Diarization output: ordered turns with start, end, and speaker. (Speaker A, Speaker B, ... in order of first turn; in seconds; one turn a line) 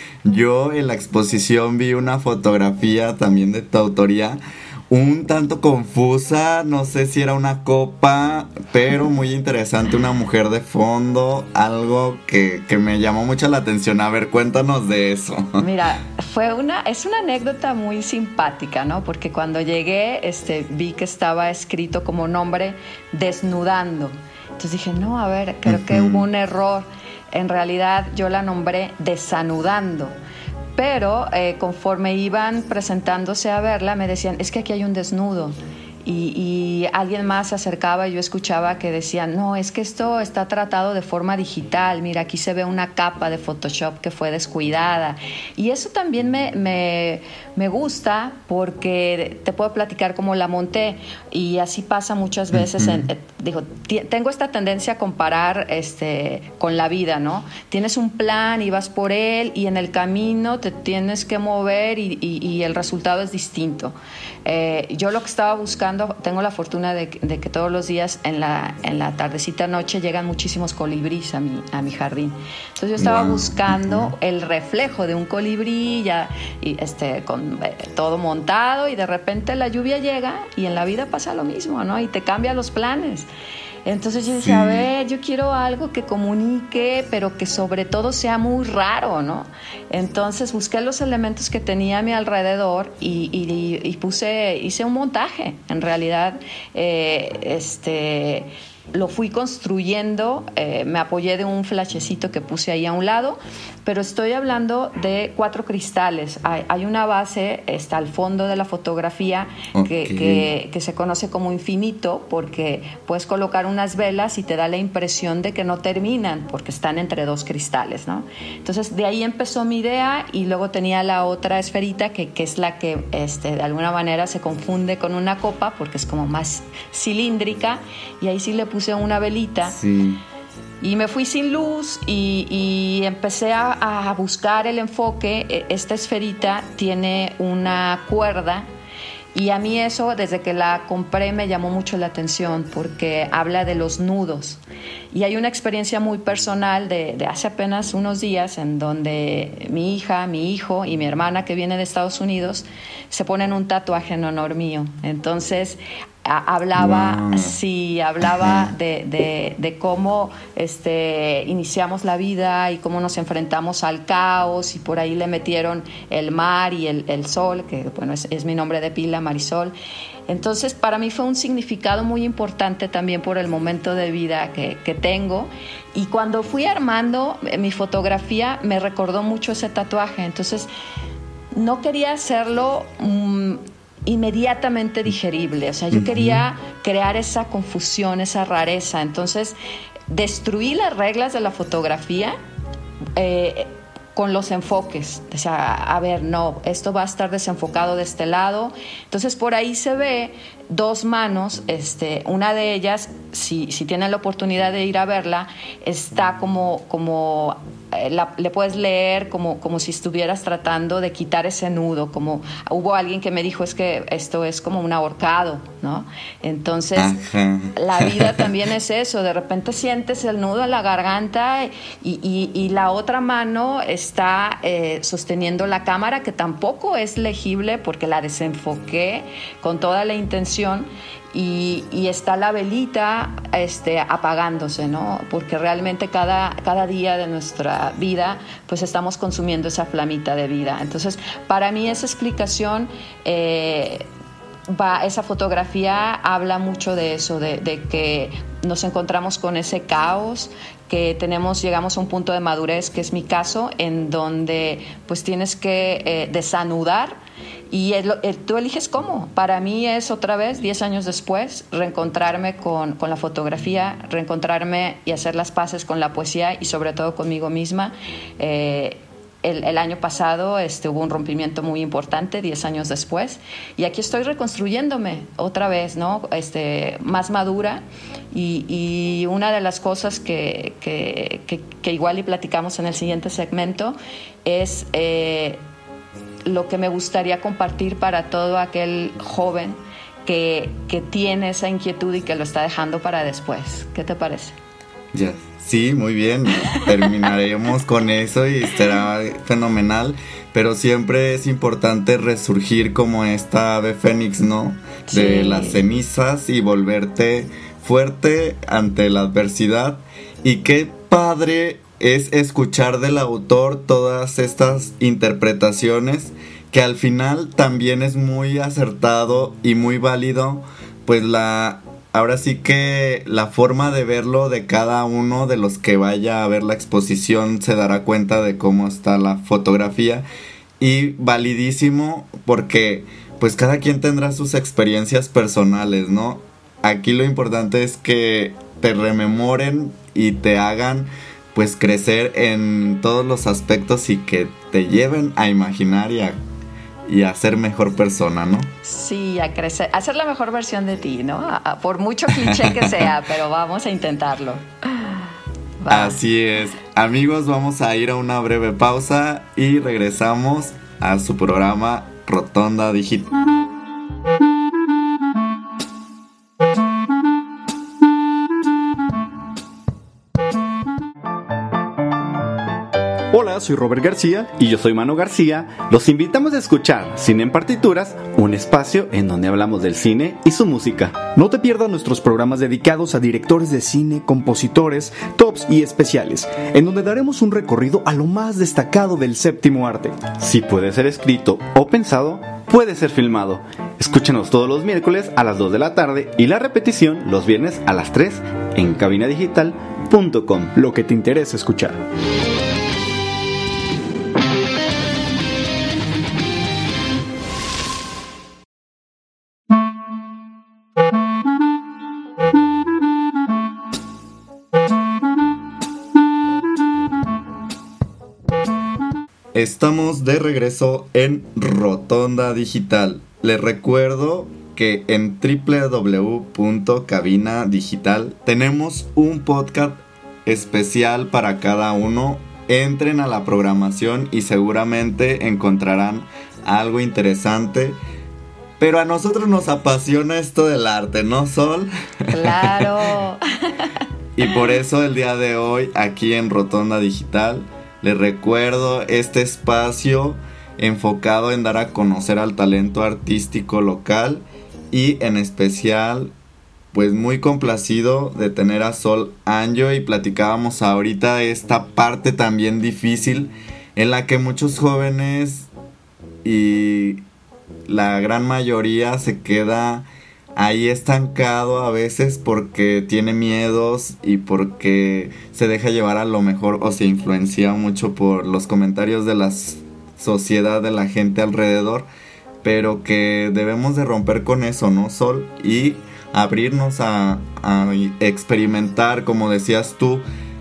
Speaker A: 0.2-4.4
Speaker A: 4.9-15.6
Speaker B: 15.6-30.1
Speaker A: 25.6-26.3
Speaker B: 30.8-83.3
Speaker A: 52.5-53.1
Speaker A: 73.0-74.1
Speaker B: 83.8-129.8
Speaker A: 84.3-84.9
Speaker A: 109.7-110.5
Speaker A: 129.7-130.2
Speaker B: 130.8-138.7
Speaker B: 139.3-144.6
Speaker B: 145.1-169.7
Speaker A: 156.8-157.6
Speaker A: 158.2-158.7
Speaker B: 170.3-180.7
Speaker B: 181.5-189.6
Speaker A: 185.9-186.4
Speaker B: 190.1-192.3
Speaker B: 193.2-217.1
Speaker A: 216.9-218.5
Speaker B: 217.8-244.1
Speaker B: 244.7-257.2
Speaker B: 257.7-285.6
Speaker B: 286.4-294.6
Speaker A: 295.1-330.2
Speaker B: 296.7-297.2
Speaker B: 305.1-305.8
Speaker A: 330.8-346.4
Speaker A: 347.1-348.7
Speaker B: 348.8-355.1
Speaker A: 352.3-353.1
Speaker B: 355.8-356.2
Speaker A: 355.9-363.3
Speaker C: 373.3-402.0
Speaker A: 419.5-438.0
Speaker A: 438.8-443.0
Speaker B: 442.3-443.9
Speaker A: 444.4-456.3
Speaker A: 456.9-465.7
Speaker A: 466.4-467.2
Speaker A: 467.9-482.1
Speaker A: 482.6-490.2